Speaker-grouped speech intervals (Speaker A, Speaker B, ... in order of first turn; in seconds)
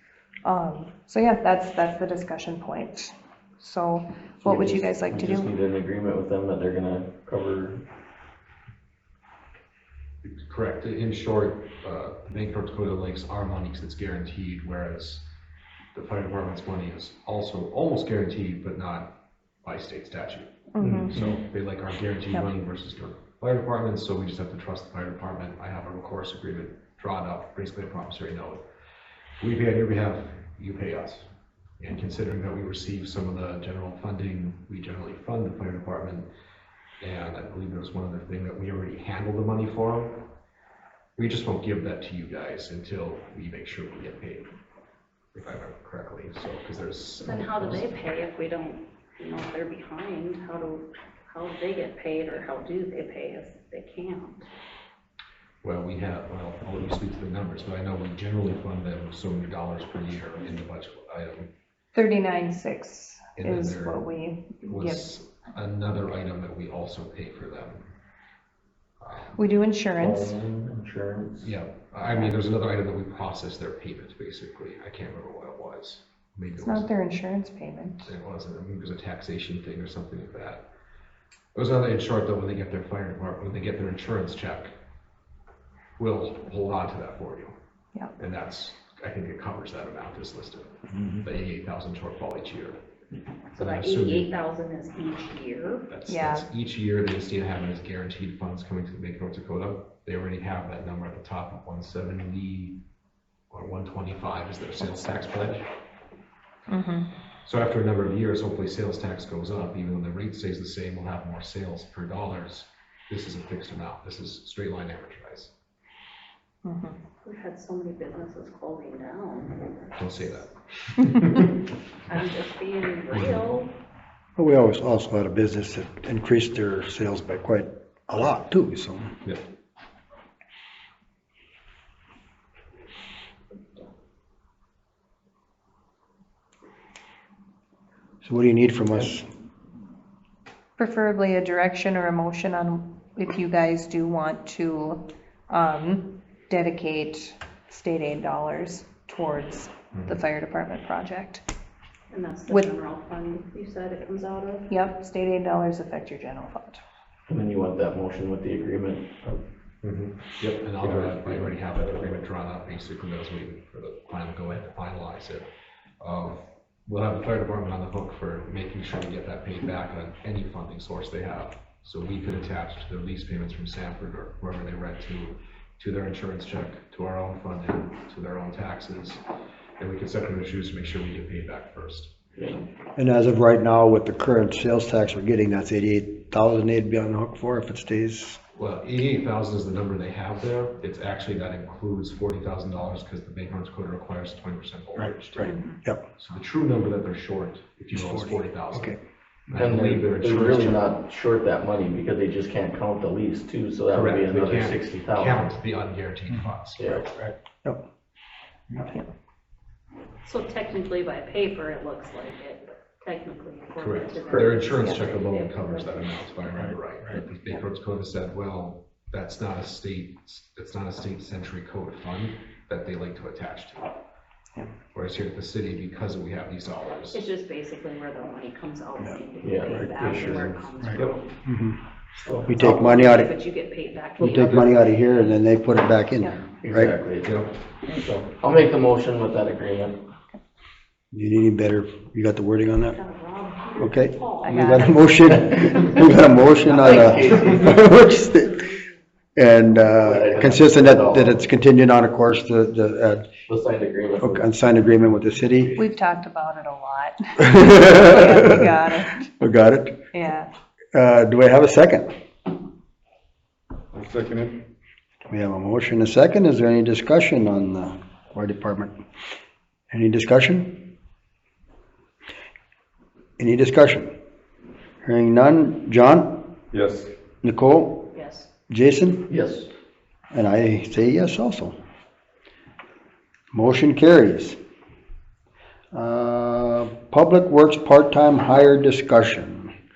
Speaker A: 0.4-5.5, 20.7-21.1, 61.9-65.1, 69.3-70.3, 76.6-78.1, 96.1-96.5, 106.7-107.1, 116.6-117.0, 140.8-151.4, 154.7-156.8, 195.4-195.8, 244.4-244.9, 255.8-259.3, 260.1-260.5
Speaker B: 4.4-7.8, 69.9-71.5, 157.3-159.4, 160.8-162.1, 182.3-182.6, 199.6-205.5, 206.8-207.1, 214.3-214.5, 229.4-230.7, 232.2-233.0, 236.6-239.9, 246.7-247.8, 249.9-251.4, 253.4-254.5, 279.3-279.7
Speaker C: 10.2-15.3, 15.9-28.6, 29.4-31.3, 31.8-36.3, 37.0-40.2, 41.2-44.5, 45.3-48.0, 55.6-61.5, 63.4-64.1, 64.7-67.9, 69.0-69.4, 71.4-76.9, 78.0-80.6, 81.5-84.7, 86.0-87.5, 88.2-92.8, 93.6-94.3, 95.9-102.8, 103.5-105.6, 107.4-115.5, 120.0-121.4, 159.8-165.5, 166.0-179.2, 179.8-182.1, 188.5-195.5, 196.2-199.0, 199.5-201.0, 203.9-207.0, 213.8-223.9, 224.9-227.3, 234.4-234.7, 237.2-237.5
Speaker D: 21.0-21.2, 206.3-207.3, 216.4-217.2, 230.8-231.1, 263.9-264.5, 276.7-277.1
Speaker E: 47.2-54.5, 93.5-95.9, 117.2-120.5, 122.1-123.7, 152.1-154.7, 210.2-216.3, 227.1-231.4, 232.6-235.0, 242.9-246.1, 246.8-248.8, 278.1-278.5
Speaker F: 124.4-129.2, 138.2-139.2, 182.9-188.4, 194.9-196.0, 197.9-199.0, 231.4-231.8, 232.4-233.4, 234.2-236.9, 241.1-243.0, 243.8-248.7, 249.3-253.3, 254.2-255.8, 257.4-258.7, 259.4-259.9, 260.9-262.1, 265.3-268.9, 269.9-270.8, 273.4-274.1, 275.0-276.4, 277.4-278.1, 278.7-279.3, 280.3-281.8, 283.5-284.6, 285.9-289.7